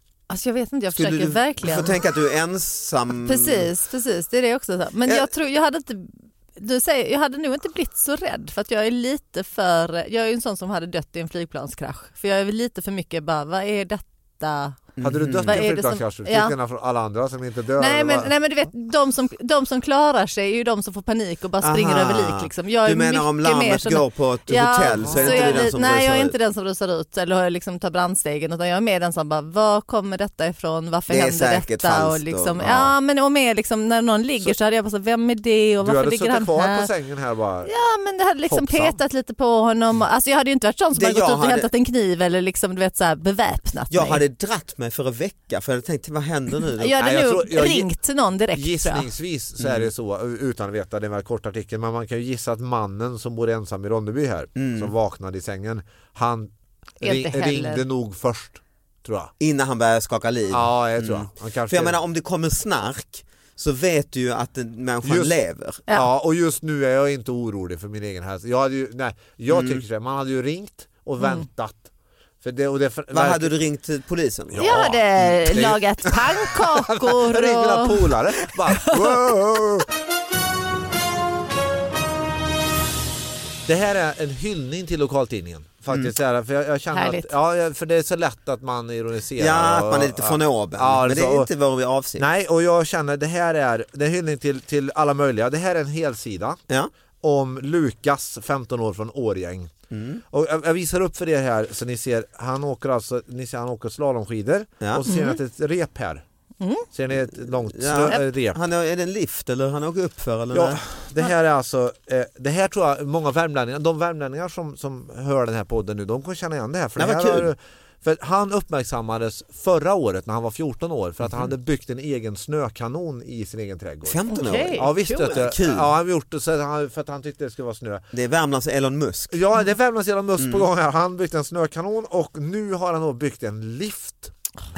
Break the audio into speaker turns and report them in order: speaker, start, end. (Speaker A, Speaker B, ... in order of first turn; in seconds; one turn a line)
Speaker A: 0.3-2.0
Speaker B: 0.9-3.7
Speaker A: 3.3-16.6
Speaker B: 15.0-15.6
Speaker C: 15.0-18.3
Speaker A: 17.8-36.9
Speaker B: 21.6-26.4
Speaker C: 24.9-25.7
Speaker B: 31.1-32.9
Speaker C: 35.8-37.7
Speaker A: 37.6-44.2
Speaker C: 38.4-39.0
Speaker B: 40.9-41.7
Speaker B: 43.9-47.0
Speaker A: 46.8-49.1
Speaker C: 47.0-47.9
Speaker C: 48.5-59.3
Speaker B: 49.6-49.9
Speaker B: 54.6-54.9
Speaker A: 57.0-57.9
Speaker B: 59.4-65.8
Speaker C: 60.5-62.0
Speaker C: 65.0-65.3
Speaker C: 65.9-71.9
Speaker B: 69.5-69.8
Speaker A: 71.2-71.5
Speaker C: 72.4-73.5
Speaker B: 73.1-74.8
Speaker C: 74.5-79.9
Speaker A: 74.6-78.1
Speaker C: 83.7-91.5
Speaker A: 86.9-87.3
Speaker B: 89.4-92.3
Speaker C: 92.2-96.6
Speaker C: 97.2-99.7
Speaker B: 99.9-100.2
Speaker C: 100.3-106.2
Speaker B: 104.8-105.1
Speaker A: 105.1-105.4
Speaker A: 106.6-106.9
Speaker C: 106.9-108.6
Speaker B: 107.3-110.8
Speaker C: 110.5-128.1
Speaker B: 117.0-117.5
Speaker B: 121.2-121.5
Speaker B: 124.1-125.9
Speaker A: 124.3-125.5
Speaker B: 128.1-129.4
Speaker C: 129.3-134.3
Speaker B: 130.4-130.7